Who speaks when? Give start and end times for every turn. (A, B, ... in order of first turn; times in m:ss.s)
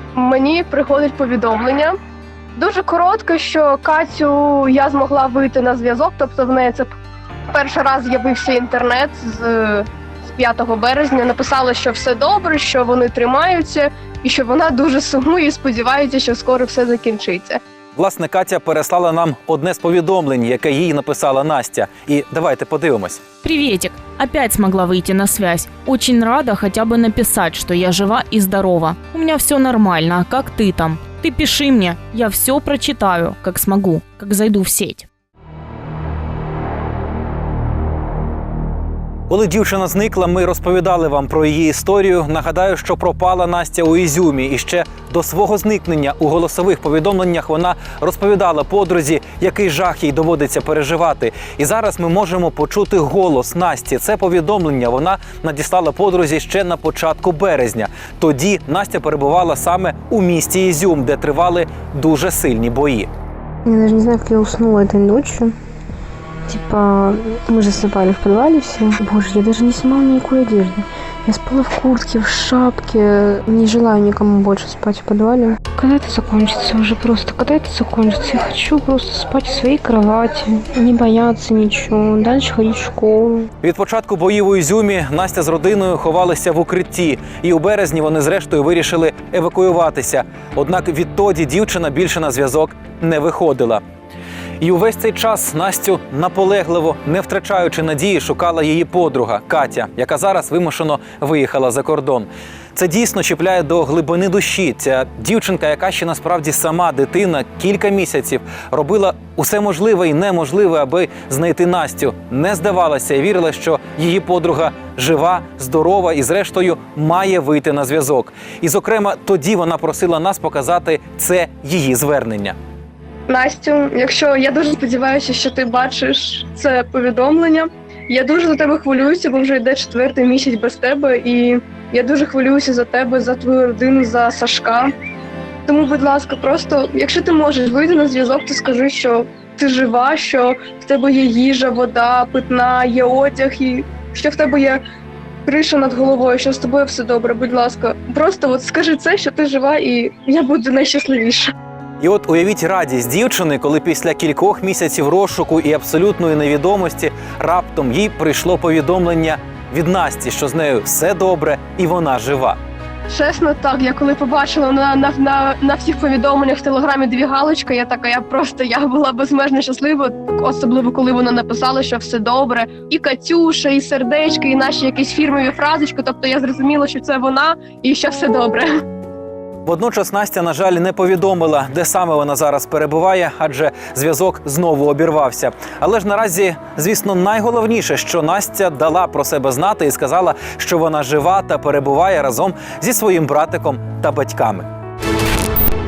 0:00.1-0:02.0 A
0:02.5-0:06.9 A
0:07.5-0:17.6 A
0:18.0-0:23.3 B
0:23.4-0:35.1 C
0:39.3-1:03.1 B
1:03.6-1:05.5 D
1:06.5-1:23.5 D
1:23.6-1:33.8 B
1:34.6-2:02.6 B
2:03.3-2:14.9 A
2:15.6-2:24.8 A
2:25.4-2:31.5 A
2:32.0-2:42.6 B
2:43.1-2:58.7 A
2:59.6-3:14.6 B